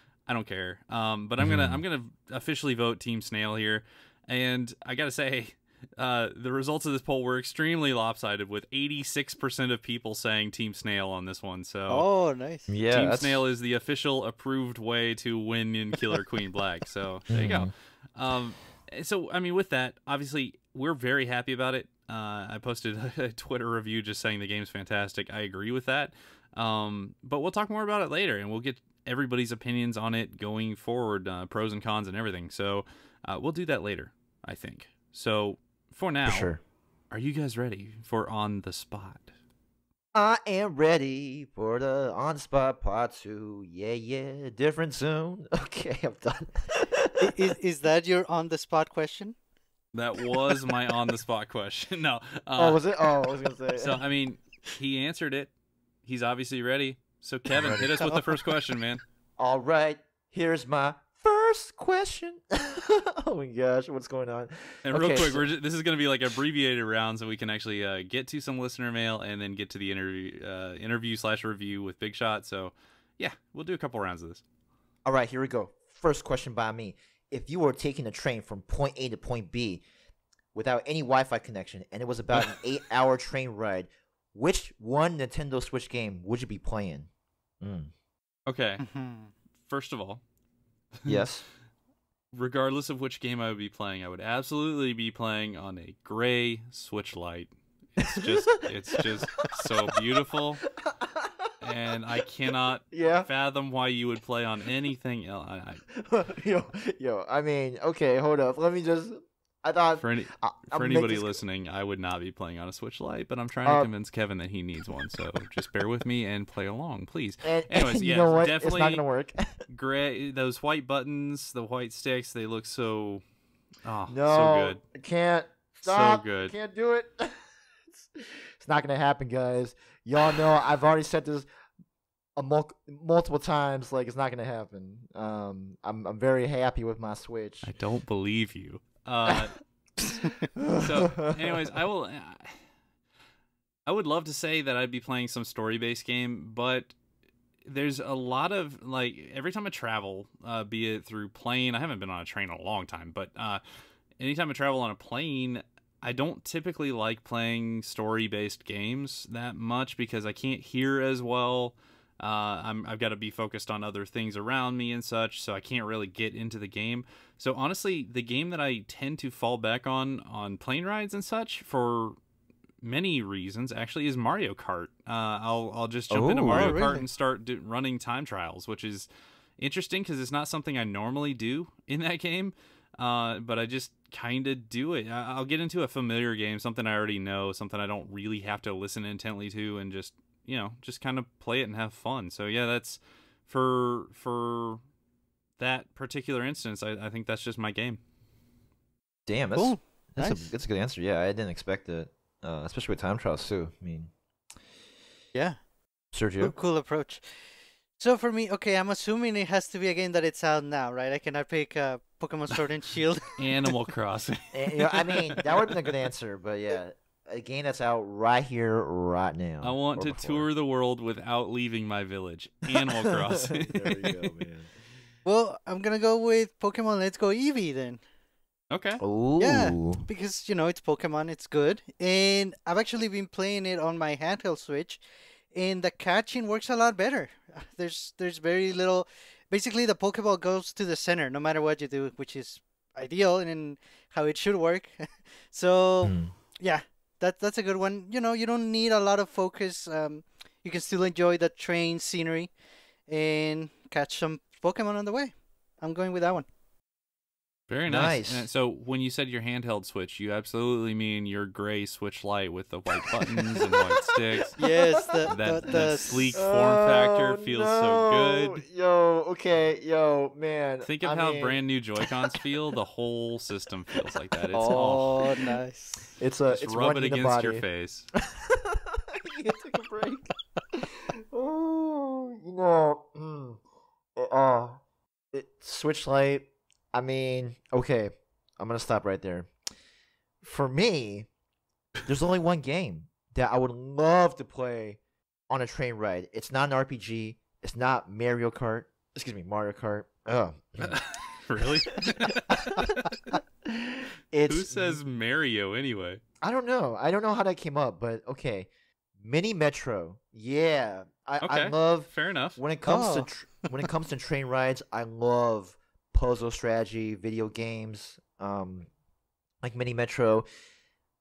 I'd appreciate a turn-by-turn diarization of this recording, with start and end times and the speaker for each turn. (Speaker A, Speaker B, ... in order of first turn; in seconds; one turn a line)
Speaker A: 0.3-12.1
Speaker B: 1.4-1.8
Speaker C: 11.9-12.7
Speaker B: 12.7-13.4
Speaker A: 12.9-36.5
Speaker B: 17.3-17.7
Speaker B: 36.2-36.6
Speaker A: 37.1-39.3
Speaker B: 40.1-47.3
Speaker C: 47.2-49.4
Speaker A: 49.9-52.8
Speaker B: 52.6-54.0
Speaker A: 53.7-55.5
Speaker A: 56.1-59.0
Speaker B: 57.5-57.9
Speaker B: 59.4-65.5
Speaker A: 64.9-74.4
Speaker B: 75.0-79.8
Speaker B: 80.5-87.1
Speaker B: 87.6-87.9
Speaker A: 88.5-88.9
Speaker C: 88.8-89.3
Speaker A: 89.7-90.2
Speaker A: 91.0-91.3
Speaker B: 91.1-91.5
Speaker A: 92.3-100.7
Speaker B: 98.0-98.4
Speaker B: 98.9-100.0
Speaker B: 100.8-101.5
Speaker A: 101.6-105.8
Speaker B: 102.9-103.3
Speaker B: 106.0-111.4
Speaker A: 110.0-119.0
Speaker B: 113.7-113.9
Speaker B: 117.4-119.6
Speaker A: 119.7-123.2
Speaker A: 123.8-124.8
Speaker B: 124.1-131.5
Speaker A: 125.8-126.5
Speaker B: 132.4-137.7
Speaker A: 137.6-139.6
Speaker B: 140.6-141.6
Speaker A: 140.7-142.6
Speaker A: 143.9-146.9
Speaker A: 147.7-153.6
Speaker A: 154.2-172.2
Speaker A: 172.8-179.1
Speaker B: 176.1-176.8
Speaker C: 176.5-177.0
Speaker A: 179.6-194.8
Speaker A: 195.6-198.0
Speaker B: 199.3-204.1
Speaker C: 199.6-200.4
Speaker C: 205.3-205.6
Speaker B: 206.1-206.6
Speaker C: 206.4-207.2
Speaker C: 208.0-213.3
Speaker A: 213.4-215.8
Speaker B: 214.5-220.5
Speaker A: 219.6-224.3
Speaker B: 222.9-224.7
Speaker C: 225.2-228.0
Speaker A: 228.7-229.0
Speaker B: 229.0-230.1
Speaker C: 229.4-235.0
Speaker C: 235.5-252.5
Speaker B: 246.0-246.3
Speaker C: 253.1-256.5
Speaker A: 257.7-264.6
Speaker B: 257.9-258.5
Speaker B: 263.1-265.8
Speaker C: 264.6-266.4
Speaker A: 265.3-268.6
Speaker B: 266.4-271.6
Speaker A: 270.8-275.1
Speaker B: 274.5-275.0
Speaker C: 274.7-276.1
Speaker B: 276.2-277.6
Speaker A: 276.5-278.1
Speaker B: 278.2-283.6
Speaker B: 284.2-284.8
Speaker B: 285.3-289.5
Speaker B: 290.4-291.3
Speaker B: 292.1-301.0
Speaker A: 300.8-303.2
Speaker B: 301.6-305.0
Speaker A: 304.5-306.2
Speaker B: 306.4-318.9
Speaker A: 311.4-312.6
Speaker C: 312.9-313.3
Speaker B: 319.6-320.5